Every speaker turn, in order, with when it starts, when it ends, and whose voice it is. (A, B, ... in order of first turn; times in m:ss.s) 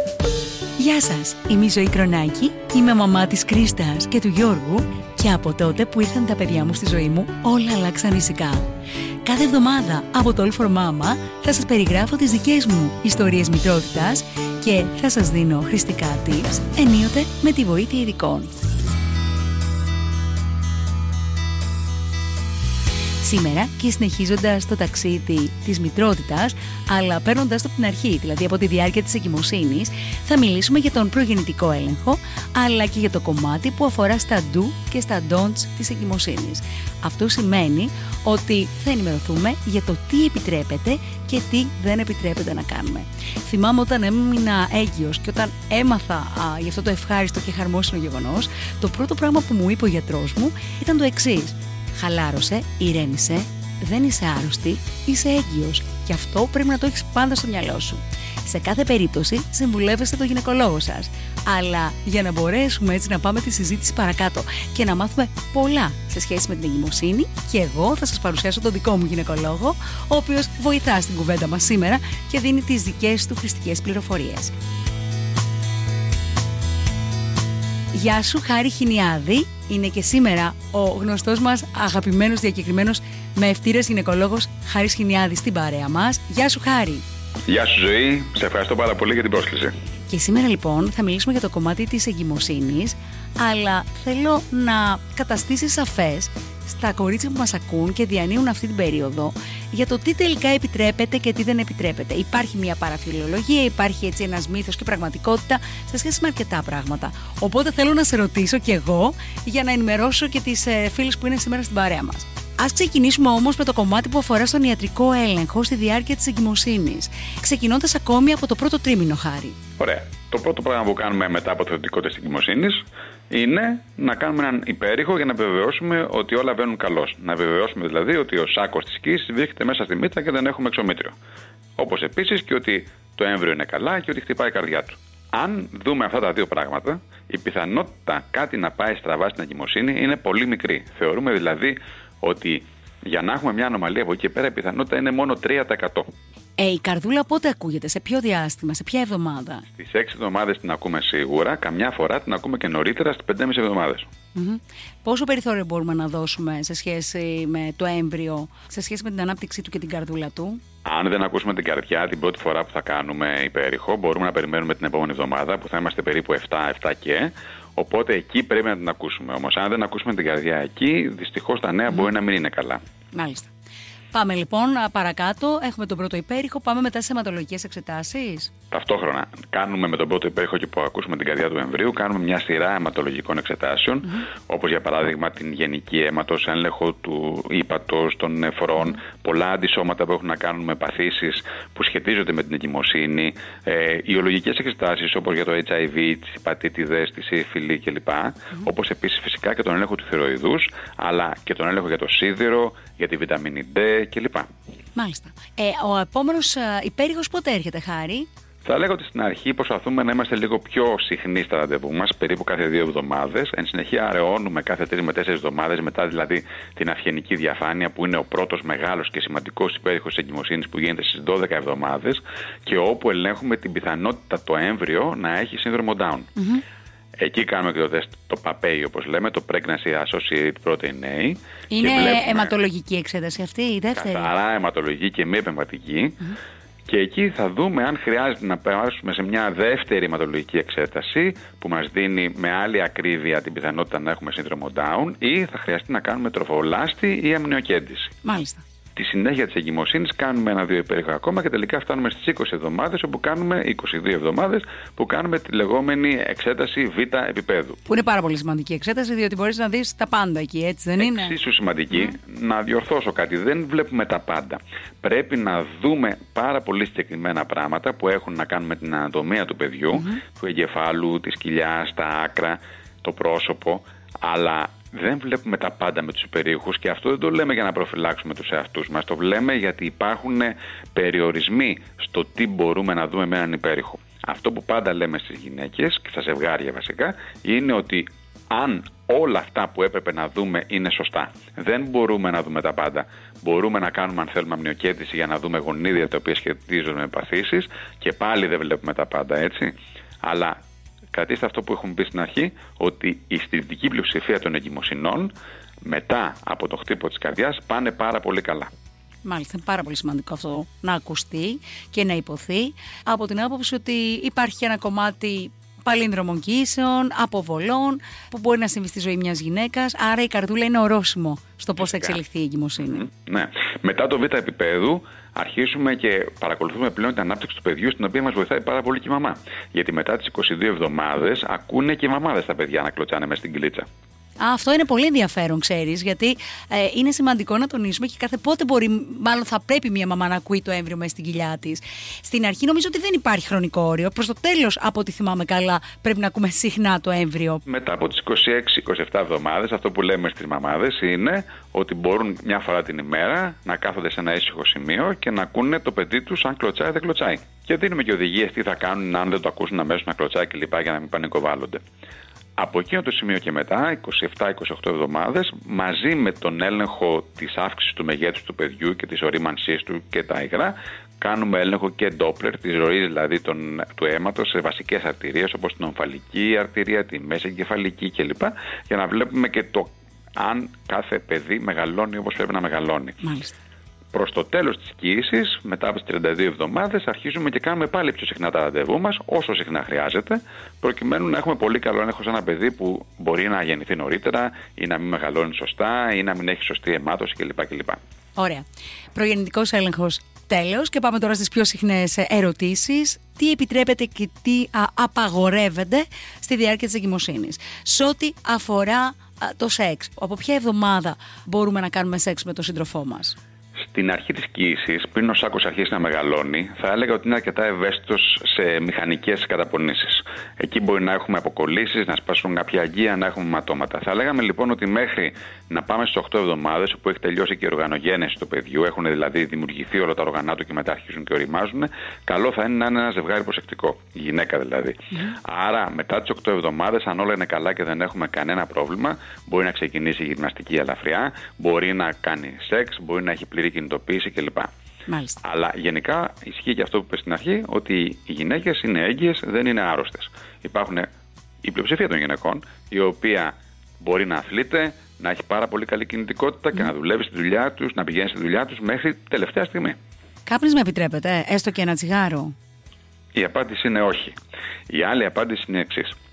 0:00.8-0:08.7 A
0:09.2-0:18.5 A
0:23.2-1:14.5 A
1:17.9-1:27.0 A
1:27.5-1:29.7 B
1:30.1-1:59.6 A
1:59.8-2:11.2 B
2:11.8-2:26.1 B
2:26.6-2:29.7 A
2:29.8-2:34.1 B
2:34.3-2:40.6 A
2:40.8-2:52.8 B
2:53.1-2:53.5 A
2:54.1-2:58.5 A
2:58.7-3:24.5 B
3:25.0-3:28.3 A
3:28.6-3:46.3 B
3:46.4-3:46.6 A
3:47.2-3:52.5 B
3:51.7-3:54.3 A
3:54.0-3:56.2 B
3:56.9-4:08.1 B
4:08.2-4:08.6 A
4:09.0-4:17.8 B
4:17.9-4:21.3 A
4:21.0-5:00.6 B
4:29.9-4:30.2 A
5:01.1-5:05.3 B
5:05.8-5:08.7 B
5:09.2-5:23.1 A
5:21.8-5:22.1 B
5:22.9-5:33.9 B
5:34.4-5:47.6 A
5:47.6-6:01.8 B
6:02.6-6:23.2 B
6:23.2-6:23.6 A
6:24.1-6:38.0 B
6:38.4-6:53.4 A
6:53.8-7:24.7 B
7:25.1-7:25.4 A
7:25.4-7:31.1 B
7:31.6-7:40.0 B
7:40.4-7:42.5 A
7:43.3-7:44.3 B
7:44.9-7:46.2 B